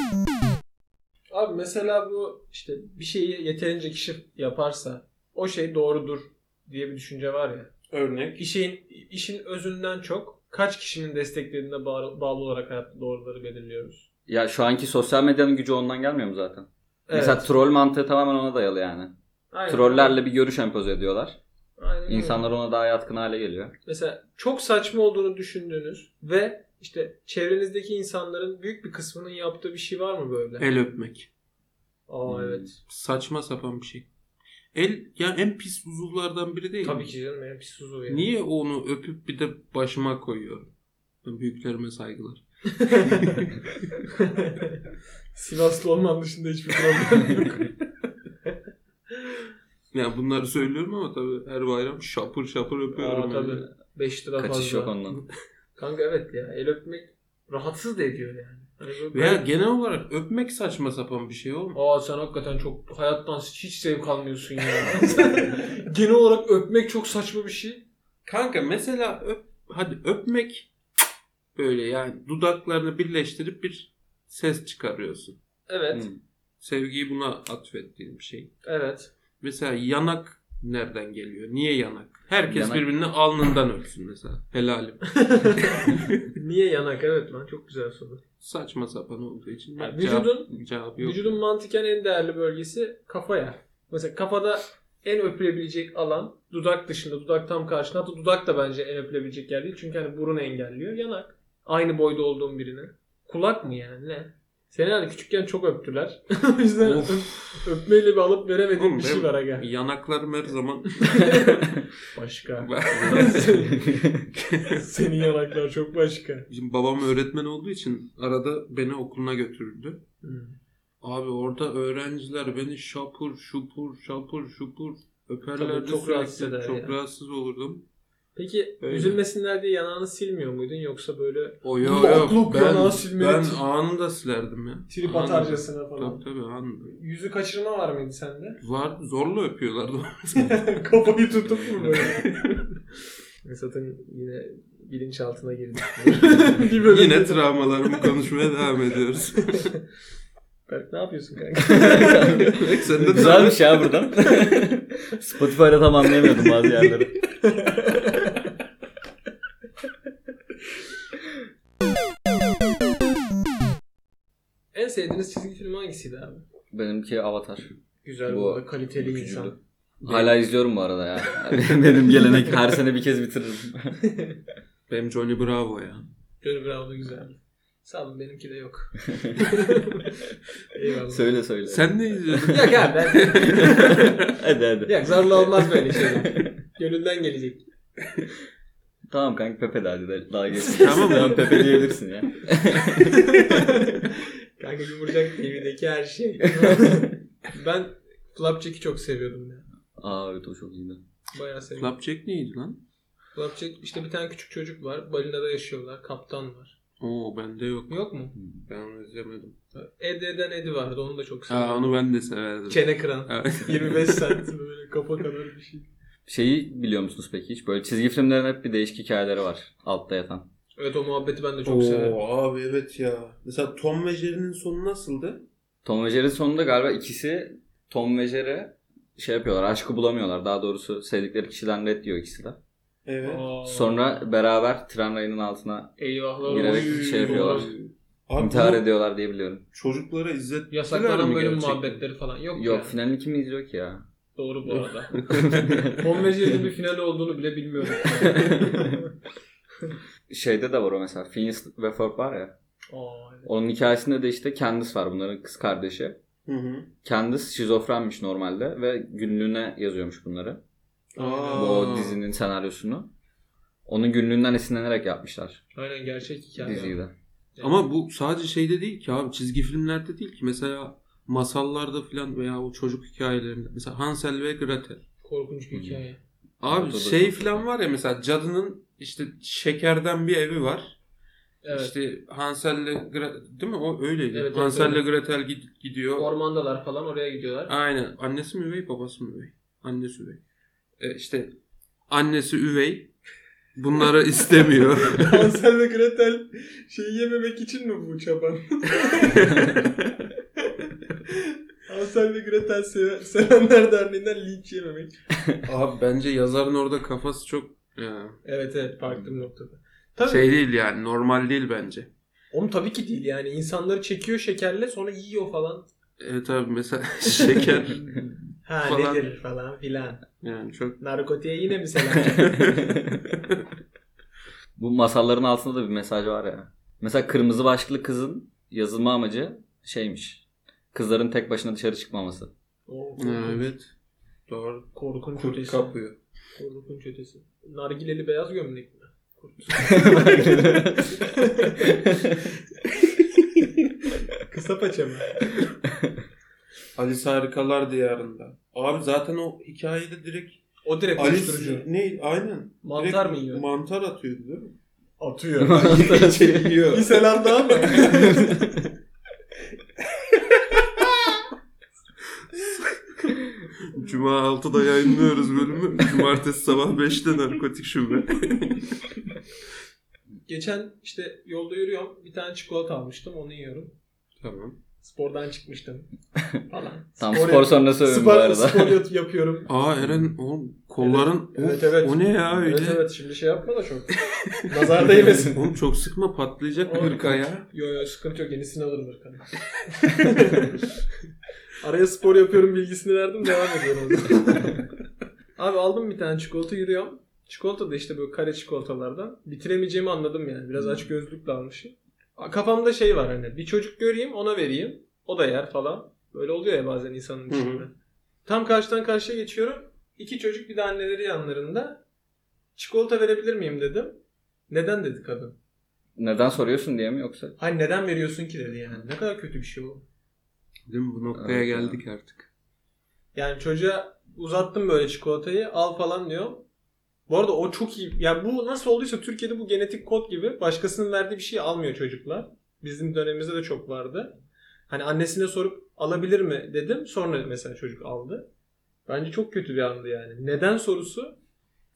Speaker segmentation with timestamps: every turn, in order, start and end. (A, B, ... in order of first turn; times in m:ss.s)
0:01.3-0:07.7 A
0:07.9-0:08.4 B
0:08.4-0:14.0 A
0:14.3-0:19.1 C
0:17.1-0:17.5 A
0:19.5-0:20.2 A
0:19.7-0:21.4 C
0:21.8-0:22.5 A
0:22.1-0:23.7 C
0:23.8-0:30.7 A
0:30.6-0:31.3 B
0:32.1-0:32.8 A
0:32.3-0:32.7 C
0:32.8-0:34.1 B
0:34.7-0:37.1 B
0:36.8-0:38.3 A
0:38.1-0:40.7 B
0:41.2-0:43.5 B
0:42.8-0:43.4 A
0:44.1-0:44.8 A
0:45.3-0:47.8 A
0:49.1-0:49.5 A
0:49.9-0:53.7 B
0:52.9-0:54.9 A
0:54.4-0:55.2 C
0:55.8-0:59.4 A
0:59.1-1:01.8 B
1:01.7-1:07.8 A
1:08.2-1:10.7 B
1:11.6-1:15.4 B
1:15.7-1:16.1 A
1:15.9-1:16.2 C
1:16.6-1:18.5 B
1:18.6-1:19.1 A
1:19.4-1:26.3 B
1:22.4-1:22.8 C
1:25.1-1:28.2 A
1:28.4-1:31.4 B
1:29.8-1:49.6 A
1:46.8-1:47.7 B
1:48.8-1:51.6 B
1:51.0-1:54.1 A
1:52.6-1:54.9 B
1:53.8-1:54.1 C
1:54.7-1:56.4 A
1:56.5-2:00.0 B
2:00.2-2:00.6 A
2:01.0-2:07.8 B
2:05.6-2:06.9 A
2:08.3-2:13.6 A
2:08.8-2:09.2 B
2:11.6-2:17.0 B
2:14.9-2:16.2 A
2:16.8-2:18.6 A
2:18.6-2:20.7 B
2:20.4-2:22.7 A
2:23.4-2:28.1 A
2:26.6-2:29.7 B
2:30.7-2:33.5 A
2:31.6-2:37.1 C
2:32.4-2:33.6 B
2:37.4-2:38.5 A
2:44.7-2:46.4 A
2:46.7-2:47.7 C
2:48.0-2:49.6 A
2:48.2-2:54.0 C
2:50.0-2:50.3 B
2:54.0-2:54.4 A
2:54.9-2:56.1 B
2:56.4-3:01.3 A
3:01.1-3:02.4 C
3:01.7-3:04.2 B
3:02.4-3:07.6 A
3:03.5-3:06.5 C
3:09.1-3:13.8 C
3:10.6-3:11.6 A
3:10.7-3:11.9 B
3:13.0-3:19.6 A
3:16.6-3:16.9 C
3:20.0-3:21.0 C
3:21.3-3:21.9 A
3:21.8-3:22.8 B
3:23.3-3:26.8 A
3:27.0-3:28.0 B
3:27.9-3:28.3 A
3:28.4-3:28.6 C
3:28.7-3:29.6 B
3:29.7-3:31.9 A
3:31.5-3:34.4 B
3:32.7-3:35.9 A
3:36.2-3:40.5 C
3:40.8-3:42.2 A
3:41.6-3:45.4 B
3:45.8-3:52.6 C
3:53.0-3:53.5 B
3:53.2-3:54.0 A
3:53.6-3:57.7 C
3:56.0-3:57.7 A
3:56.4-3:58.8 B
3:58.4-3:59.6 C
3:59.7-4:02.0 B
4:00.7-4:02.9 A
4:02.5-4:04.0 C
4:04.4-4:05.2 A
4:04.7-4:06.0 B
4:05.3-4:06.0 C
4:05.9-4:09.1 A
4:08.3-4:09.0 C
4:10.3-4:12.5 C
4:12.9-4:13.5 A
4:13.4-4:16.2 C
4:16.4-4:16.9 B
4:17.0-4:20.6 C
4:21.1-4:21.9 A
4:21.1-4:22.2 B
4:21.5-4:23.1 C
4:23.8-4:25.6 C
4:25.7-4:27.0 A
4:26.6-4:27.1 C
4:27.6-4:27.8 A
4:27.6-4:35.0 B
4:35.2-4:36.2 A
4:35.7-4:36.0 C
4:36.6-4:41.0 B
4:36.6-4:37.6 C
4:41.6-4:41.9 A
4:41.7-4:46.3 B
4:44.3-4:45.0 A
4:46.2-4:47.7 A
4:47.7-4:50.4 B
4:51.0-4:51.5 B
4:52.1-4:53.1 B
4:53.8-4:55.5 B
4:55.0-5:05.1 A
4:59.2-4:59.7 B
5:05.6-5:08.4 B
5:08.4-5:10.5 A
5:10.2-5:12.1 B
5:12.5-5:15.9 A
5:16.2-5:19.3 B
5:17.3-5:20.2 A
5:20.4-5:21.0 B
5:21.0-5:22.8 A
5:22.2-5:22.8 B
5:22.5-5:22.9 C
5:24.8-5:32.5 C
5:32.9-5:33.7 A
5:33.2-5:33.9 B
5:34.5-5:36.2 B
5:34.9-5:36.0 A
5:36.6-5:42.0 A
5:39.8-5:41.2 C
5:41.8-5:42.4 C
5:44.4-5:45.5 A
5:45.9-5:46.1 C
5:47.0-5:50.6 B
5:50.8-5:51.9 A
5:51.2-5:54.7 B
5:52.8-5:53.6 A
5:55.2-5:56.2 A
5:55.6-5:56.8 C
5:55.7-5:58.2 B
5:56.8-5:58.8 A
5:58.0-5:58.9 C
6:00.3-6:00.8 B
6:03.8-6:08.9 B
6:10.5-6:13.9 A
6:14.4-6:14.8 B
6:15.0-6:16.1 A
6:16.7-6:19.7 A
6:17.2-6:19.0 C
6:19.7-6:23.0 B
6:21.0-6:25.6 A
6:24.2-6:27.7 B
6:26.8-6:30.9 A
6:31.8-6:34.9 A
6:35.6-6:47.9 A
6:47.5-6:47.9 B
6:48.4-6:52.0 A
6:52.8-6:55.6 A
6:56.2-6:57.5 C
6:57.6-7:00.0 A
7:00.9-7:02.5 B
7:01.3-7:02.0 C
7:03.3-7:06.6 A
7:07.3-7:14.3 A
7:14.9-7:18.5 A
7:19.1-7:21.4 A